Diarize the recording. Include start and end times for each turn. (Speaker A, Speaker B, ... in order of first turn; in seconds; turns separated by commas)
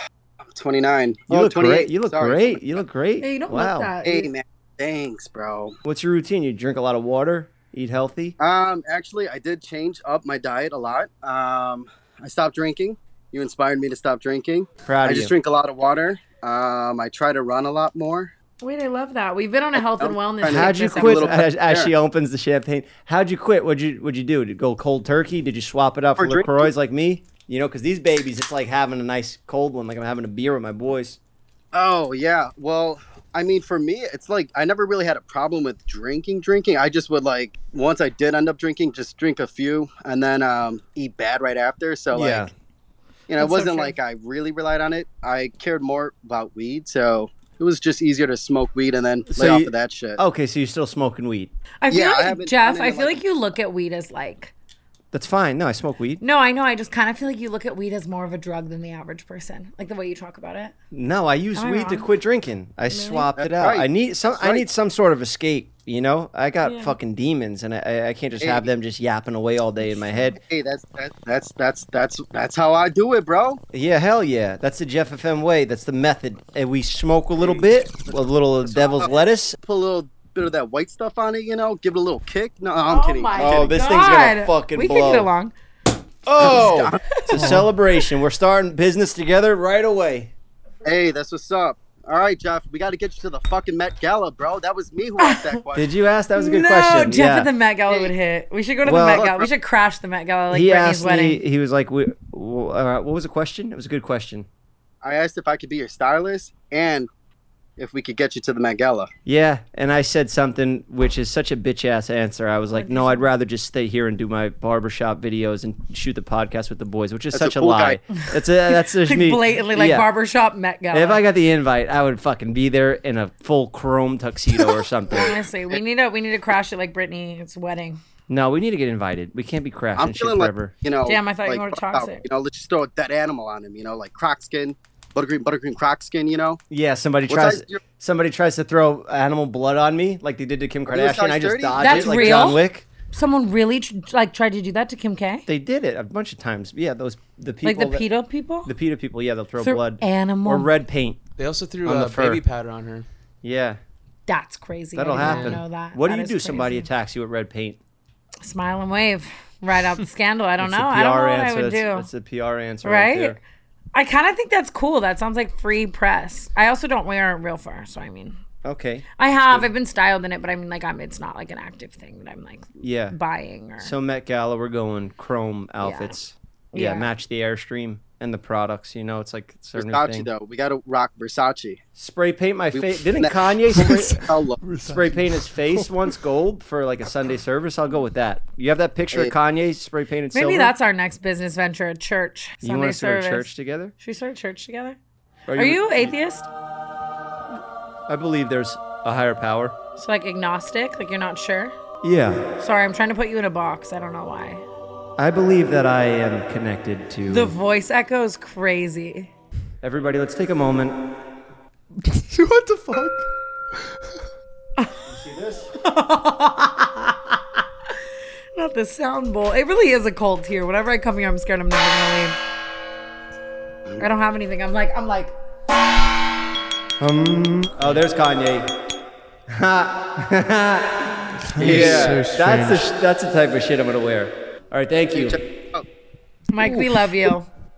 Speaker A: 0.5-2.8, Speaker B: 1.3-3.9, Speaker C: 3.2-4.3, Speaker A: 4.0-5.7, Speaker B: 5.8-8.3, Speaker A: 8.4-18.3, Speaker B: 14.8-15.3, Speaker C: 18.6-21.3, Speaker A: 20.0-21.9, Speaker B: 20.4-31.2, Speaker A: 26.2-26.7, Speaker A: 31.7-42.5, Speaker B: 42.1-42.5, Speaker A: 43.3-50.2, Speaker C: 43.4-43.9, Speaker B: 49.3-51.5, Speaker C: 51.8-54.5, Speaker A: 51.9-53.2, Speaker B: 55.1-56.2, Speaker C: 56.2-60.7, Speaker B: 60.9-70.4, Speaker C: 61.5-62.1, Speaker C: 62.9-63.3, Speaker A: 63.4-64.6, Speaker C: 66.6-66.9, Speaker A: 68.4-68.7, Speaker A: 70.4-73.6, Speaker B: 73.7-79.6, Speaker A: 78.7-83.7, Speaker C: 82.9-85.5, Speaker B: 83.4-85.3, Speaker D: 86.3-86.9, Speaker B: 86.4-90.3, Speaker C: 86.4-87.5, Speaker A: 86.4-87.0, Speaker E: 87.4-87.7, Speaker A: 90.8-95.9, Speaker C: 95.2-95.6, Speaker B: 95.7-97.5, Speaker C: 96.3-101.4, Speaker B: 98.8-99.2, Speaker A: 99.2-99.5, Speaker B: 100.5-104.5, Speaker A: 105.0-107.1, Speaker A: 107.8-109.1, Speaker B: 109.2-120.1, Speaker C: 112.7-113.3, Speaker A: 117.3-118.0, Speaker C: 118.2-121.2, Speaker B: 120.9-125.4, Speaker C: 125.1-128.0, Speaker B: 128.3-130.7, Speaker A: 130.0-136.6, Speaker C: 131.0-132.2, Speaker B: 136.7-142.8, Speaker A: 137.3-137.8, Speaker A: 140.9-142.6, Speaker C: 141.8-145.4, Speaker B: 145.5-148.0, Speaker C: 147.6-148.7, Speaker B: 148.6-151.2, Speaker C: 149.6-150.7, Speaker D: 151.4-153.1, Speaker B: 151.8-152.4, Speaker B: 153.4-153.8, Speaker C: 154.3-156.9, Speaker B: 154.9-157.8, Speaker D: 155.1-155.6, Speaker C: 158.4-162.1, Speaker B: 160.6-163.4, Speaker C: 162.8-163.4, Speaker C: 163.9-168.4, Speaker B: 168.6-169.7, Speaker C: 169.2-173.9, Speaker B: 172.8-173.1, Speaker B: 173.8-180.3, Speaker C: 175.8-176.1, Speaker C: 176.7-177.1, Speaker A: 179.8-181.8, Speaker B: 181.9-184.2, Speaker A: 182.7-184.6, Speaker E: 184.6-185.9, Speaker B: 184.8-190.7, Speaker C: 190.3-195.0, Speaker B: 192.6-193.9, Speaker B: 195.5-196.2, Speaker C: 195.5-196.5, Speaker B: 198.1-199.8, Speaker C: 200.0-201.8, Speaker B: 202.0-202.4, Speaker C: 202.6-204.6, Speaker B: 205.2-207.5, Speaker C: 207.3-209.3, Speaker B: 209.8-211.0, Speaker E: 212.0-213.3, Speaker B: 215.0-215.7, Speaker C: 215.8-217.4, Speaker C: 218.6-222.3, Speaker C: 224.0-225.3, Speaker B: 227.0-228.7, Speaker B: 229.5-235.4, Speaker E: 231.4-232.9, Speaker A: 231.8-232.2, Speaker A: 235.1-235.8, Speaker C: 236.5-237.5